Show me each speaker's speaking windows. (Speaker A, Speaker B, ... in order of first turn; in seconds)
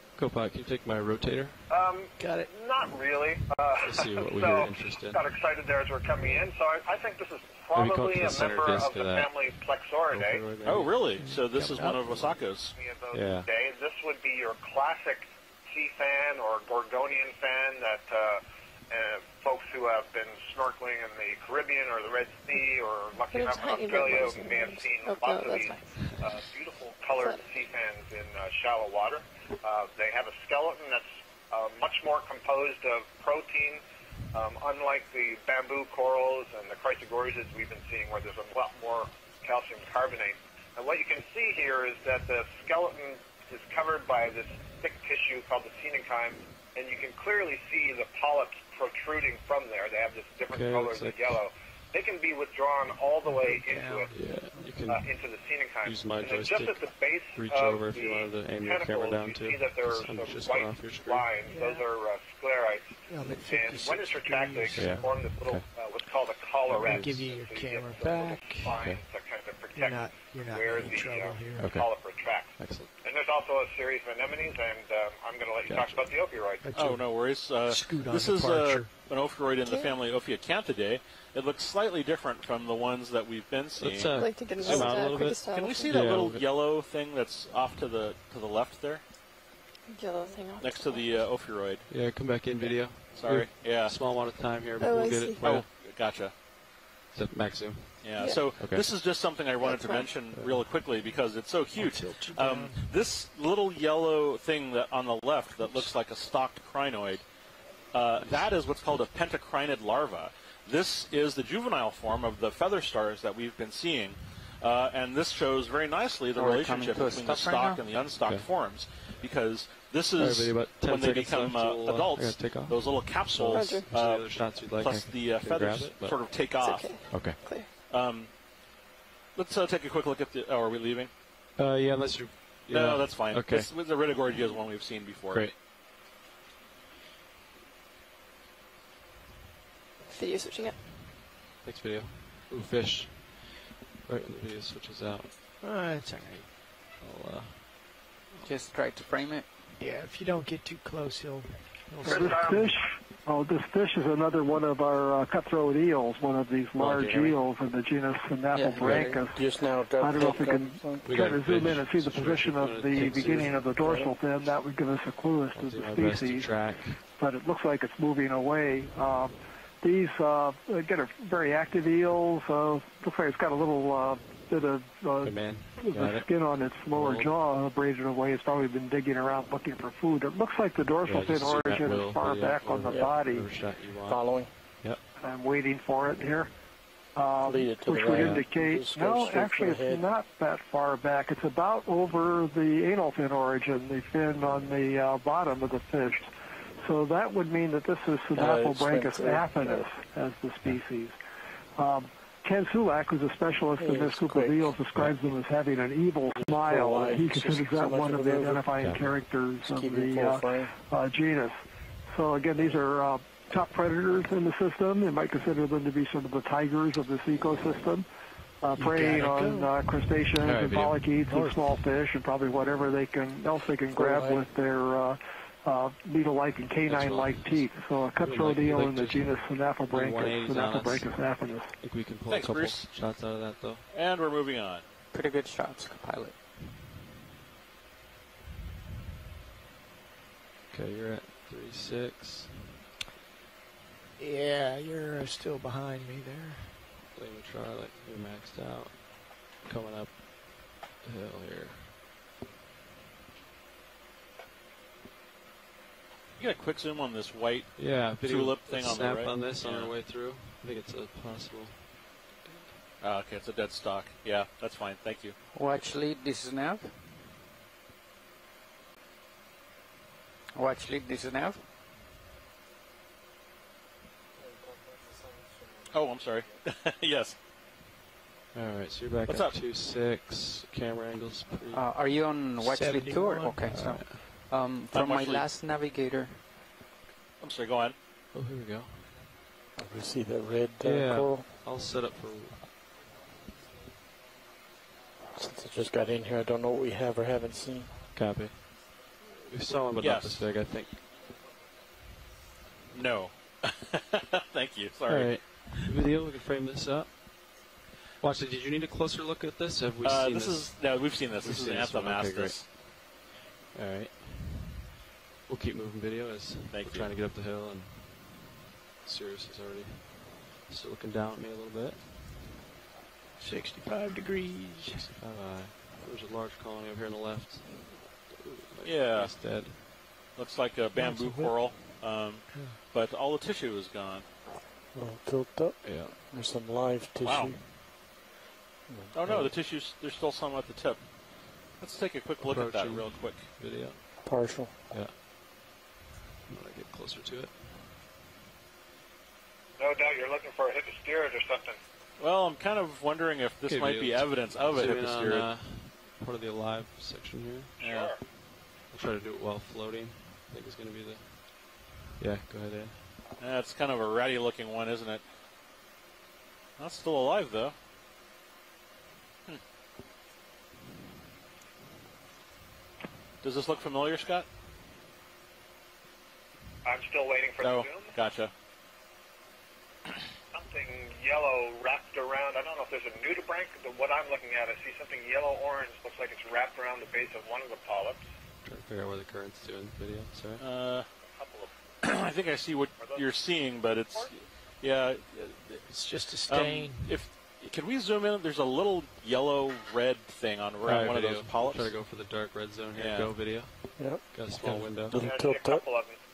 Speaker A: 0.1-1.7, 3.8-5.2, 7.7-9.4, 10.1-11.1, 13.1-13.5, 50.5-51.4, 54.1-55.1, 55.8-56.8, 57.3-61.3, 64.7-65.7, 66.7-67.3, 68.7-69.0, 71.6-71.9, 72.6-72.9, 75.7-76.2, 83.8-86.5, 91.9-95.7, 97.1-98.9, 108.2-108.5, 118.2-118.5, 120.2-126.5, 127.1-127.4, 131.6-133.7, 135.3-135.6, 141.6-145.3, 147.0-148.0, 156.8-157.4, 158.8-159.1, 161.0-163.9, 165.5-167.1, 175.2-176.3, 176.9-177.3, 181.0-185.0, 188.1-188.5, 208.8-209.2, 220.4-221.2, 226.8-233.8, 240.7-242.8, 247.1-251.9, 257.8-262.7, 278.5-281.9, 283.7-284.2, 288.3-289.2, 290.8-292.7, 298.1-298.6, 299.2-301.0, 305.1-307.2, 308.2-312.8, 313.7-314.8, 315.5-322.1, 324.9-329.9, 335.8-336.2, 342.4-344.1, 344.9-345.1, 346.5-347.6, 353.7-357.7, 358.9-361.5, 362.1-363.1, 388.6-390.6, 400.8-405.2
Speaker B: 1.7-10.5, 12.8-54.1, 54.9-76.7, 152.0-152.7, 349.8-351.8, 357.8-358.2, 376.8-378.1, 380.5-388.2, 391.3-391.7, 393.0-393.5, 405.1-406.2
Speaker C: 2.2-2.5, 10.8-12.4, 53.2-54.7, 61.5-61.8, 63.1-65.2, 66.7-68.8, 69.7-71.8, 76.6-78.9, 101.8-102.9, 145.6-146.5, 149.8-152.7, 218.8-219.9, 244.2-246.8, 282.6-284.0, 323.4-325.1, 330.9-331.8, 332.5-332.8, 395.9-397.2
Speaker D: 10.6-12.7, 76.7-89.0, 90.6-91.9, 93.0-94.0, 95.4-96.4, 98.0-107.2, 107.9-127.3, 127.9-128.3, 129.3-131.1, 132.7-135.5, 232.3-233.2, 233.9-234.8, 256.4-259.9, 263.0-265.4, 275.9-277.4, 279.2-279.6, 284.9-285.5, 287.4-287.9, 300.0-300.5, 302.9-305.9, 310.0-312.6, 316.7-317.1, 328.8-329.4, 330.3-334.2, 337.2-337.5, 339.1-343.5, 352.2-355.5, 357.8-358.1, 363.4-365.2, 366.8-367.7, 373.4-374.5, 377.6-378.5, 390.6-391.1, 392.0-395.8, 396.4-402.0, 402.9-403.6
Speaker E: 23.3-26.1, 27.2-27.4, 79.6-79.9, 84.1-86.2, 89.9-91.3, 92.6-92.8, 94.8-95.5, 98.1-98.5, 99.6-100.2, 123.5-123.9, 126.5-127.7, 140.1-140.8
Speaker F: 116.3-117.8, 148.4-149.5, 158.5-159.0, 235.1-236.4, 265.5-267.0, 270.5-271.6, 281.7-286.5
Speaker G: 152.0-183.5, 185.2-186.5, 187.1-201.2, 201.8-218.1, 218.6-231.7
Speaker H: 158.7-161.1, 163.8-164.1, 182.9-183.2, 184.1-184.6, 187.4-190.1, 198.3-199.9, 203.8-204.8, 206.4-208.8, 209.6-210.7, 223.9-224.5, 289.8-291.5, 295.3-297.9, 334.9-337.7, 338.9-339.5, 344.2-344.7, 404.0-405.8